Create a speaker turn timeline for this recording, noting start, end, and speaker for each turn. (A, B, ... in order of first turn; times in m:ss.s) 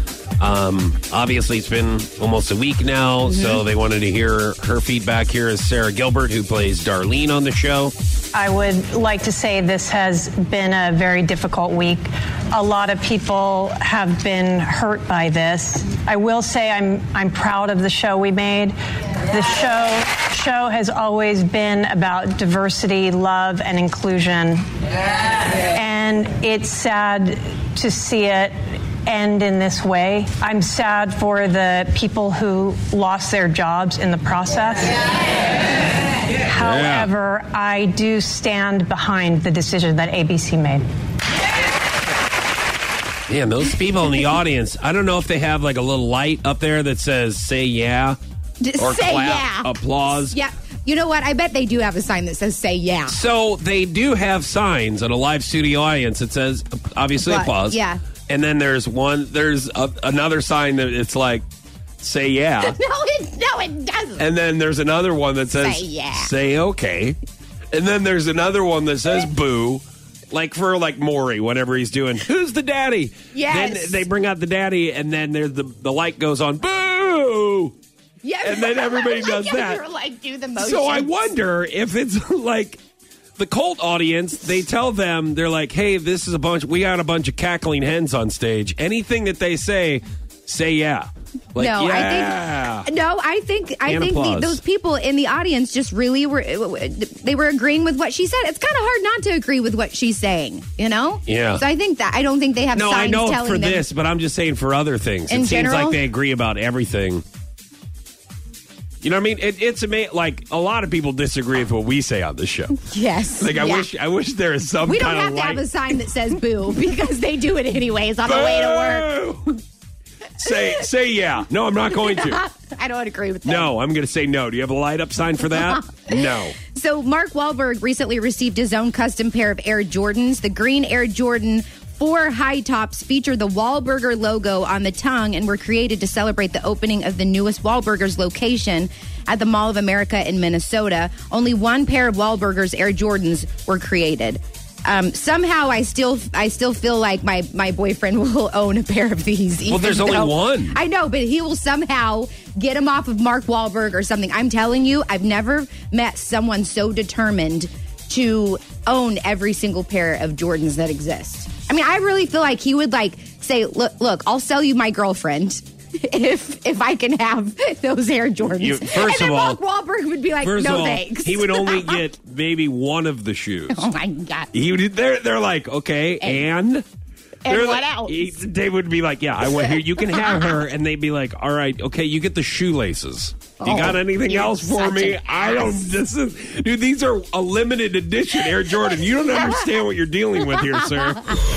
0:00.4-0:07.9 A
0:08.3-0:18.7 B
0:19.3-0:24.6 B
0:25.7-0:28.5 B
0:29.1-0:35.0 B
0:36.4-0:40.8 B
0:36.6-0:37.1 A
0:43.3-0:48.2 A
0:48.6-0:53.2 C
0:48.8-0:50.4 A
0:53.1-1:01.5 A
0:57.2-0:58.0 C
1:02.0-1:02.8 A
1:02.6-1:04.3 C
1:04.2-1:07.2 A
1:05.5-1:06.3 C
1:07.7-1:17.7 A
1:13.3-1:14.1 C
1:18.2-1:21.3 C
1:18.4-1:19.8 A
1:20.6-1:22.8 A
1:23.4-1:32.9 A
1:31.6-1:43.9 C
1:33.8-1:34.6 A
1:41.3-1:41.6 A
1:42.7-1:47.2 A
1:45.3-1:46.1 C
1:49.0-1:52.8 A
1:52.8-1:53.9 C
1:53.4-1:55.7 A
1:54.8-1:59.6 C
1:58.2-1:59.5 A
2:00.4-2:00.9 C
2:00.4-2:02.4 A
2:01.8-2:03.8 C
2:03.4-2:06.6 A
2:05.4-2:52.1 C
2:29.7-2:30.8 A
2:48.6-2:49.6 A
2:50.4-2:53.9 A
2:53.7-2:54.5 C
2:54.5-2:56.9 A
2:56.2-2:56.5 C
2:57.4-2:58.3 C
2:57.5-3:11.4 A
2:59.7-3:00.6 C
3:03.6-3:05.9 C
3:09.3-3:09.7 C
3:10.5-3:11.4 C